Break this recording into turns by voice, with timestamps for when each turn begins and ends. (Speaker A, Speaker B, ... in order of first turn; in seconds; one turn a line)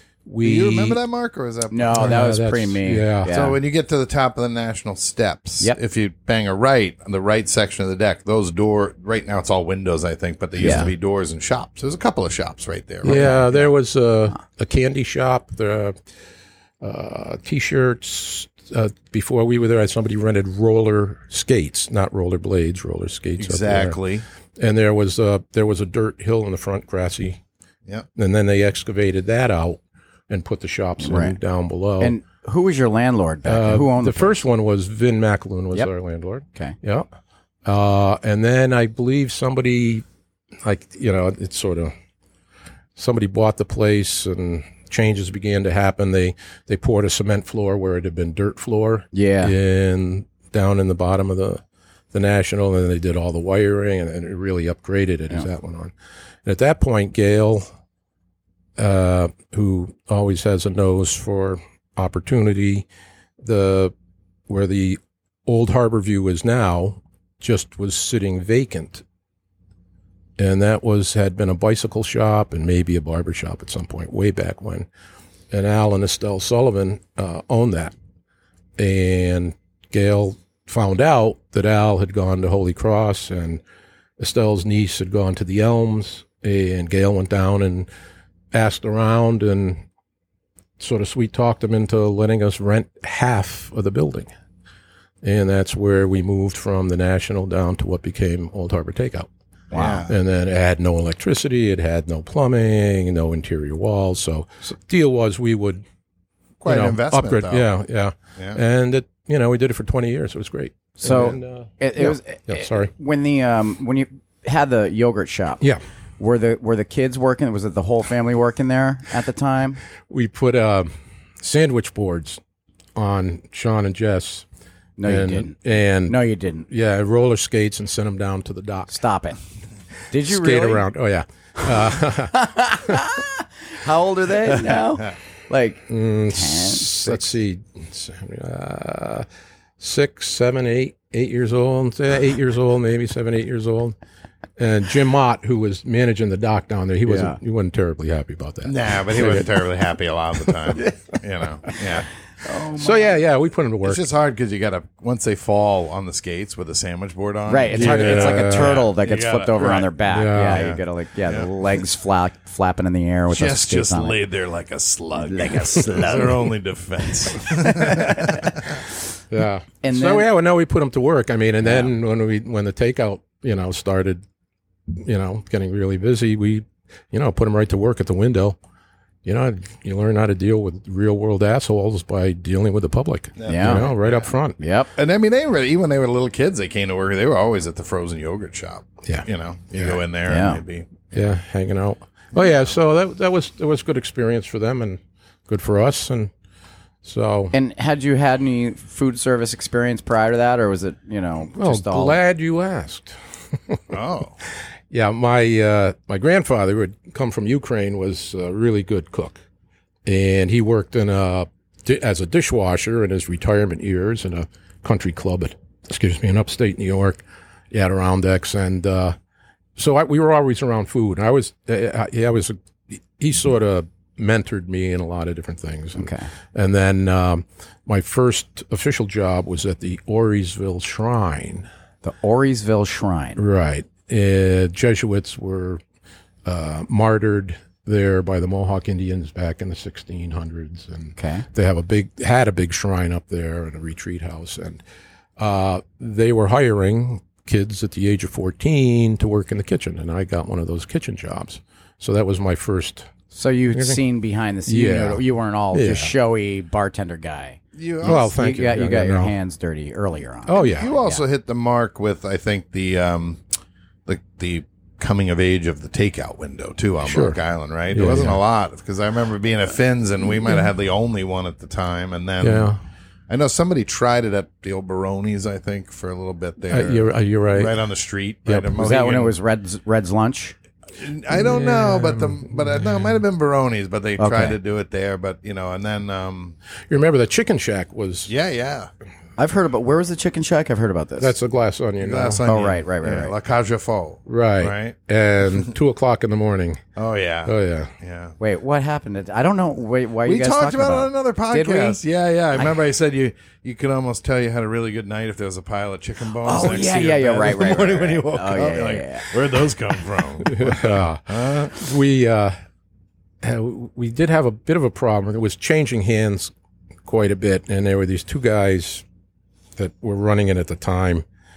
Speaker A: 0.3-1.0
Speaker B: 0.4-2.2
Speaker C: 1.7-3.6
Speaker A: 2.0-3.3
Speaker B: 3.3-13.4
Speaker C: 10.6-10.9
Speaker A: 13.0-16.0
Speaker C: 13.1-13.7
Speaker A: 16.8-24.0
Speaker B: 23.4-24.2
Speaker A: 24.6-27.4
Speaker A: 28.2-32.1
Speaker C: 31.0-31.4
Speaker C: 32.0-34.4
Speaker A: 33.5-37.1
Speaker A: 37.7-40.0
Speaker A: 40.6-41.9
Speaker A: 43.0-55.9
Speaker C: 49.1-49.5
Speaker A: 56.5-57.7
Speaker A: 58.8-62.9
Speaker A: 63.4-63.9
Speaker A: 64.5-69.0
Speaker A: 70.4-74.9
Speaker A: 75.5-77.9
Speaker A: 78.8-83.6
Speaker A: 84.2-87.9
Speaker A: 88.5-89.8
Speaker A: 90.8-94.3
Speaker A: 95.2-99.3
Speaker C: 99.7-100.0
Speaker B: 99.7-100.2
Speaker A: 100.1-105.8
Speaker B: 106.6-107.7
Speaker A: 106.7-112.9
Speaker C: 111.0-115.6
Speaker C: 116.2-119.8
Speaker A: 120.1-122.4
Speaker A: 123.0-124.5
Speaker C: 125.0-126.7
Speaker A: 125.0-129.0
Speaker C: 128.9-129.4
Speaker C: 130.1-130.9
Speaker A: 130.2-133.1
Speaker C: 131.6-137.3
Speaker A: 135.9-139.3
Speaker A: 139.8-143.9
Speaker A: 144.6-149.5
Speaker C: 147.1-147.4
Speaker B: 148.7-152.1
Speaker C: 152.4-153.1
Speaker A: 152.7-154.1
Speaker B: 153.8-159.9
Speaker C: 157.5-164.2
Speaker A: 157.7-158.8
Speaker A: 160.1-160.7
Speaker B: 160.5-161.5
Speaker B: 163.3-168.8
Speaker C: 165.2-166.5
Speaker C: 167.3-168.5
Speaker A: 169.3-174.2
Speaker C: 169.8-170.3
Speaker C: 171.6-171.9
Speaker A: 174.9-178.6
Speaker A: 179.2-184.6
Speaker B: 183.4-184.3
Speaker C: 183.5-183.9
Speaker C: 184.6-184.9
Speaker B: 184.9-191.1
Speaker A: 189.1-190.0
Speaker C: 190.3-190.6
Speaker A: 191.1-196.3
Speaker A: 197.0-197.5
Speaker C: 197.5-202.2
Speaker A: 201.6-203.9
Speaker B: 203.9-204.3
Speaker A: 204.9-209.4
Speaker A: 210.1-219.2
Speaker A: 219.8-231.7
Speaker C: 226.0-226.3
Speaker C: 232.0-233.4
Speaker A: 233.4-235.8
Speaker A: 236.4-244.8
Speaker C: 241.2-241.5
Speaker A: 245.4-253.1
Speaker C: 253.3-261.2
Speaker A: 253.7-254.0
Speaker A: 254.7-256.1
Speaker B: 257.8-258.3
Speaker A: 258.0-259.3
Speaker A: 260.5-260.9
Speaker B: 260.6-263.4
Speaker B: 264.1-272.7
Speaker A: 267.0-267.4
Speaker A: 267.9-268.4
Speaker A: 272.4-272.8
Speaker B: 273.3-279.4
Speaker A: 276.7-277.8
Speaker A: 278.5-278.8
Speaker C: 278.8-280.6
Speaker B: 281.0-286.6
Speaker A: 281.3-283.2
Speaker C: 284.2-284.6
Speaker A: 286.9-288.3
Speaker B: 288.3-288.9
Speaker C: 289.4-291.3
Speaker A: 291.2-292.4
Speaker B: 292.0-294.9
Speaker C: 292.5-293.3
Speaker A: 294.3-296.8
Speaker B: 297.0-298.4
Speaker A: 297.5-297.9
Speaker C: 298.4-302.0
Speaker B: 300.2-311.8
Speaker C: 306.4-309.3
Speaker A: 310.4-312.6
Speaker A: 313.4-316.5
Speaker A: 317.1-319.1
Speaker A: 319.8-321.2